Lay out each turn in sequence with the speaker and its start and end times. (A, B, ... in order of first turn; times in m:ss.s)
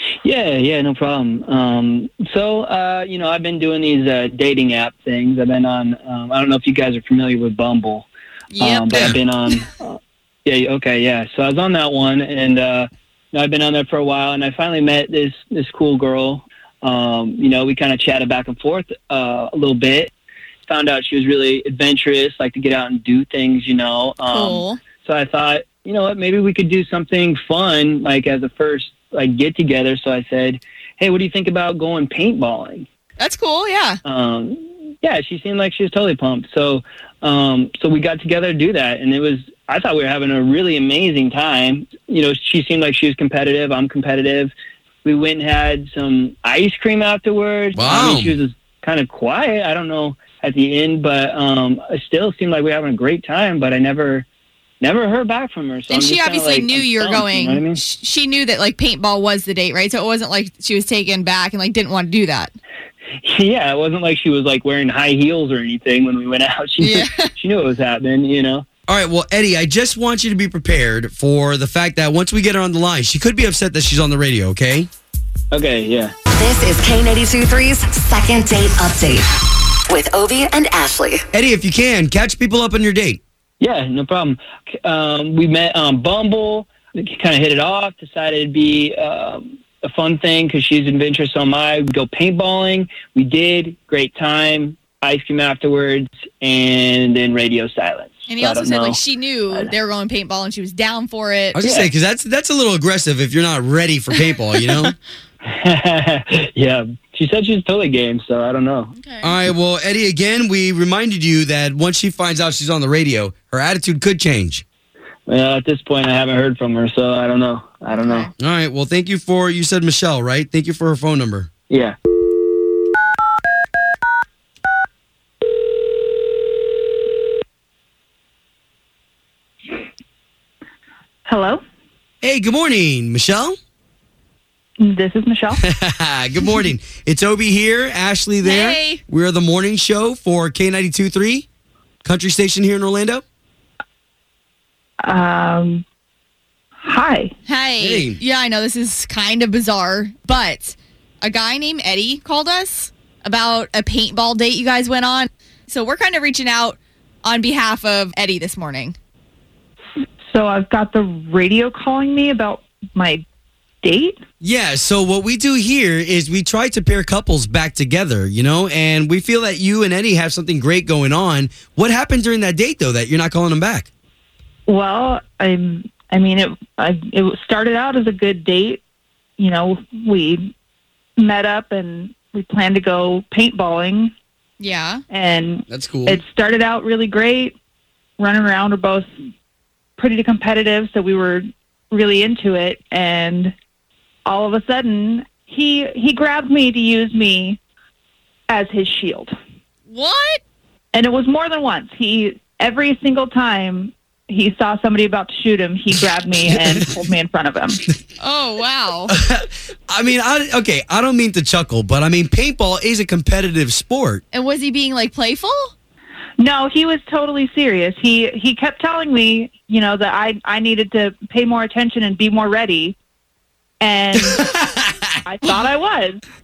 0:00.2-0:08.1 A
0:08.5-0:09.1 B
0:08.6-0:20.1 A
0:08.9-0:09.2 C
0:20.7-0:32.8 A
0:24.3-0:24.8 B
0:33.2-0:34.0 B
0:34.0-0:44.5 A
0:45.0-0:54.3 A
0:47.7-0:48.4 C
0:54.8-0:57.8 A
0:55.9-1:02.5 B
1:03.2-1:08.6 A
1:06.8-1:07.3 B
1:08.9-1:14.9 C
1:15.5-1:16.1 A
1:16.3-1:19.2 D
1:19.9-1:21.2 D
1:21.3-1:23.2 C
1:23.6-1:39.0 A
1:38.3-1:41.6 B
1:41.5-1:44.9 C
1:41.6-1:41.9 A
1:45.4-1:48.9 A
1:48.9-1:49.4 B
1:49.2-1:54.6 C
1:55.3-1:58.3 A
1:57.9-1:58.3 B
1:58.4-2:01.5 C
2:01.7-2:01.9 A
2:11.2-2:11.6 E
2:12.2-2:13.6 C
2:14.8-2:15.6 E
2:15.6-2:21.5 C
2:18.4-2:19.0 B
2:22.0-2:23.2 C
2:25.0-2:25.8 E
2:26.8-2:27.3 E
2:27.5-2:39.0 B
2:27.8-2:28.2 C
2:40.3-2:43.2 E
2:43.8-2:44.2 E
2:44.4-2:53.9 C
2:54.7-2:58.8 E
2:59.4-3:00.5 E
3:01.2-3:04.1 E
3:04.6-3:05.0 B
3:05.1-3:07.5 E
3:05.7-3:06.2 C
3:08.2-3:09.0 E
3:10.0-3:13.5 E
3:14.2-3:17.6 E
3:18.5-3:19.3 E
3:19.9-3:20.4 B
3:20.9-3:27.8 E
3:28.2-3:29.1 B
3:29.1-3:34.2 C
3:34.3-3:35.7 B
3:36.4-3:43.0 E
3:43.8-3:44.5 E
3:44.2-3:45.1 C
3:45.2-3:46.2 E